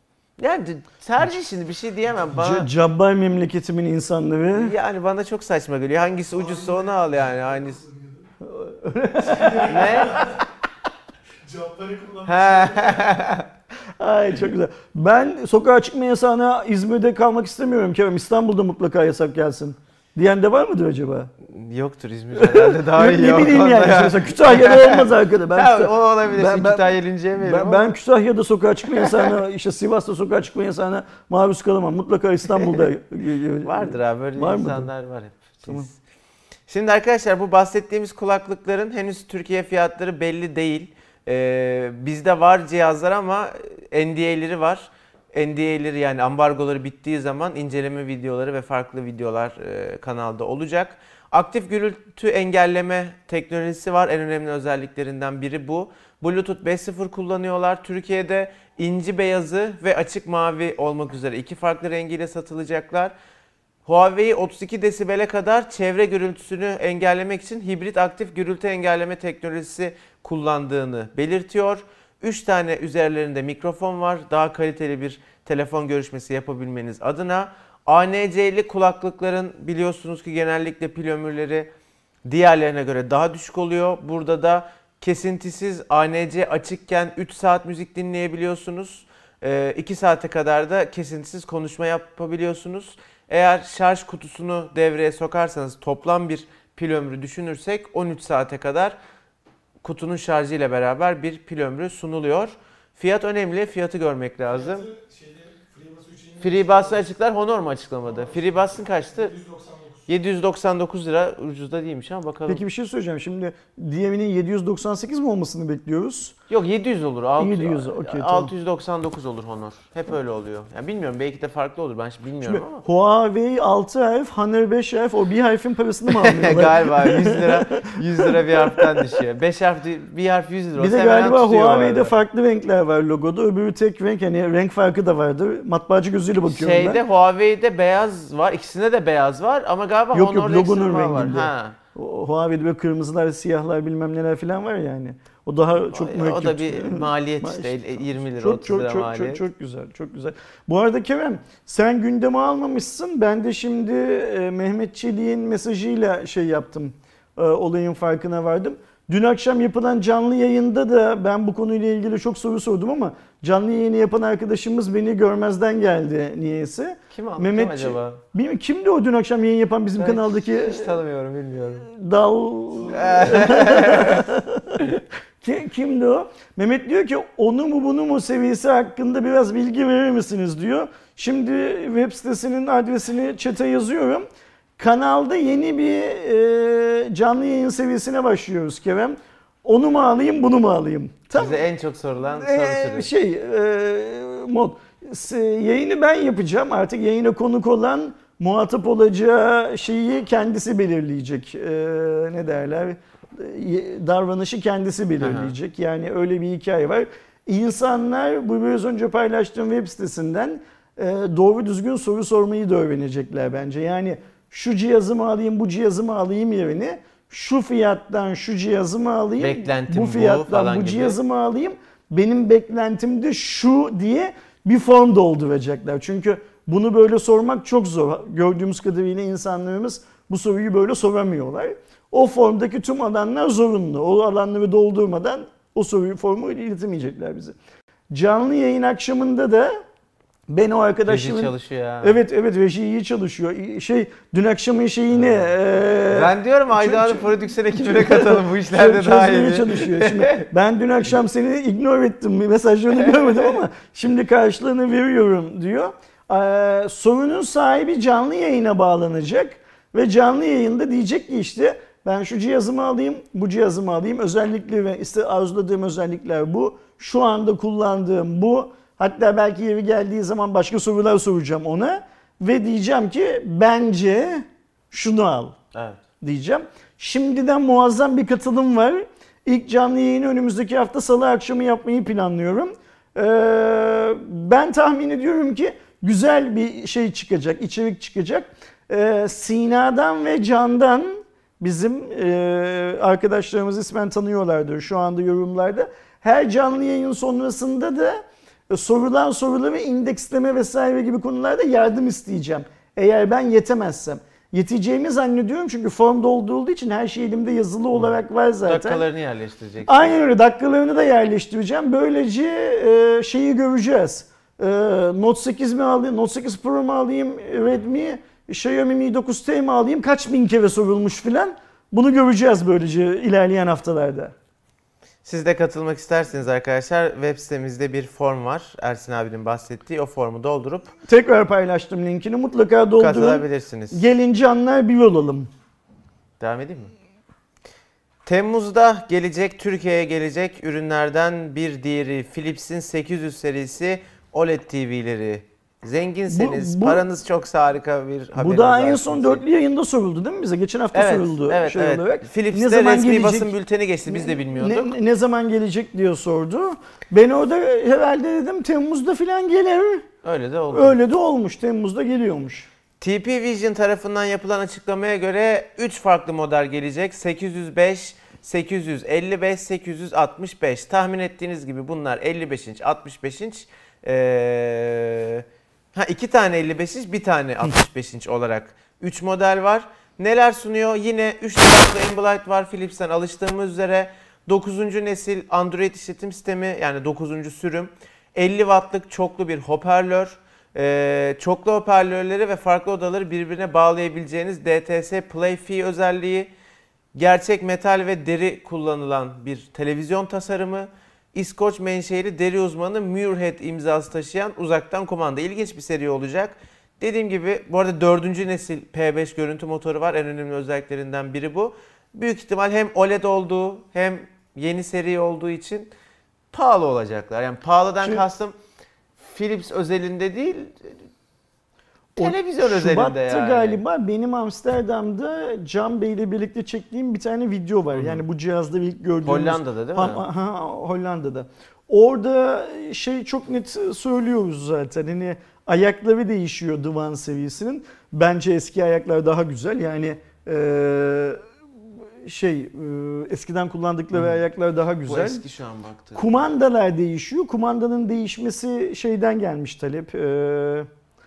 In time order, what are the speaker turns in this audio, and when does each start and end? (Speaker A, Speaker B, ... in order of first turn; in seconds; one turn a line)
Speaker A: 0.4-2.7
Speaker B: 2.4-4.7
Speaker A: 4.5-7.8
Speaker C: 6.3-8.3
Speaker B: 8.4-10.2
Speaker C: 9.2-10.4
Speaker A: 9.6-10.4
Speaker C: 11.4-13.2
Speaker A: 12.3-13.5
Speaker B: 14.0-21.3
Speaker A: 21.4-27.9
Speaker B: 22.3-34.9
Speaker A: 28.9-29.3
Speaker A: 33.6-36.0
Speaker A: 36.7-63.1
Speaker A: 63.9-81.7
Speaker A: 82.2-99.0
Speaker A: 99.8-104.9
Speaker C: 104.5-107.0
Speaker A: 106.4-109.3
Speaker C: 108.0-110.1
Speaker A: 110.1-112.6
Speaker B: 112.5-116.4
Speaker A: 116.5-122.8
Speaker B: 117.4-118.5
Speaker B: 122.4-129.0
Speaker A: 126.1-132.2
Speaker B: 130.8-137.0
Speaker A: 136.4-141.8
Speaker B: 140.1-171.0
Speaker A: 145.9-149.4
Speaker A: 167.1-168.2
Speaker A: 170.0-171.9
Speaker B: 171.8-184.3
Speaker A: 172.9-174.3
Speaker B: 184.8-191.7
Speaker A: 191.3-193.1
Speaker B: 192.4-237.6
Speaker A: 205.2-205.6
Speaker A: 219.4-221.2
Speaker B: 238.1-239.8
Speaker B: 240.5-275.6
Speaker A: 241.1-242.2
Speaker A: 245.2-245.5
Speaker A: 246.1-250.5
Speaker A: 275.7-276.0
Speaker B: 276.2-309.0
Speaker A: 308.6-310.3
Speaker B: 309.9-324.3
Speaker A: 325.2-330.9
Speaker B: 331.1-335.5
Speaker A: 333.0-334.0
Speaker A: 336.4-336.9
Speaker A: 338.3-349.4
Speaker B: 346.3-347.0
Speaker B: 348.4-353.5
Speaker A: 350.9-355.0
Speaker B: 354.1-360.1
Speaker A: 360.2-361.0
Speaker B: 360.7-362.7
Speaker A: 363.0-396.5
Speaker A: 397.1-415.9
Speaker A: 416.5-418.6
Speaker A: 419.2-421.0
Speaker B: 422.2-441.4
Speaker A: 422.2-423.8
Speaker A: 427.9-428.2
Speaker A: 429.2-430.2
Speaker B: 442.1-445.4
Speaker A: 445.1-446.5
Speaker B: 446.1-450.9